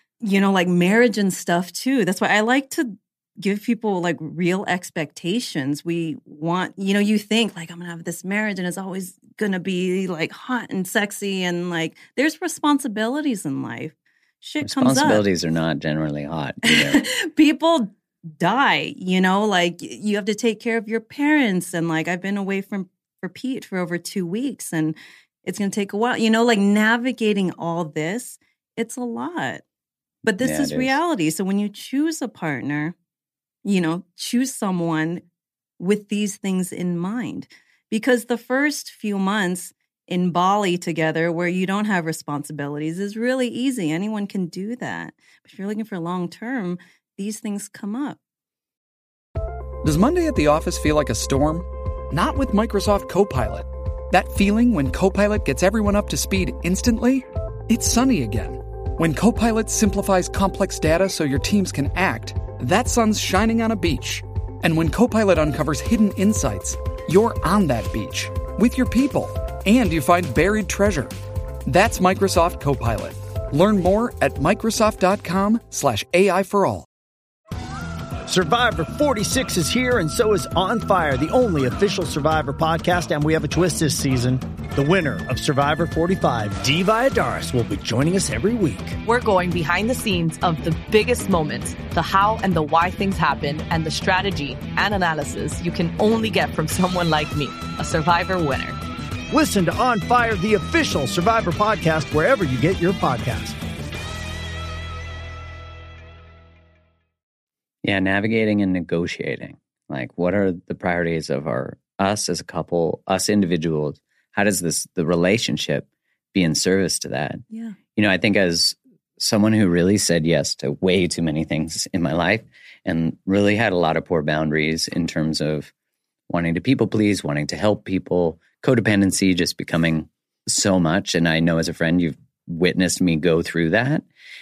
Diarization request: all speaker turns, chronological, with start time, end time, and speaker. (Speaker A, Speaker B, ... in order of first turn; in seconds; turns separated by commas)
Speaker A: 0.2-15.2, Speaker B: 14.6-17.0, Speaker A: 16.6-29.6, Speaker A: 30.2-32.9, Speaker B: 30.4-31.0, Speaker A: 33.6-35.2, Speaker A: 35.8-48.2, Speaker C: 49.8-71.1, Speaker C: 71.7-76.8, Speaker D: 78.3-89.0, Speaker E: 89.0-98.8, Speaker D: 99.3-103.6, Speaker B: 107.8-117.4, Speaker A: 117.5-117.8, Speaker B: 117.9-125.7, Speaker B: 126.3-134.1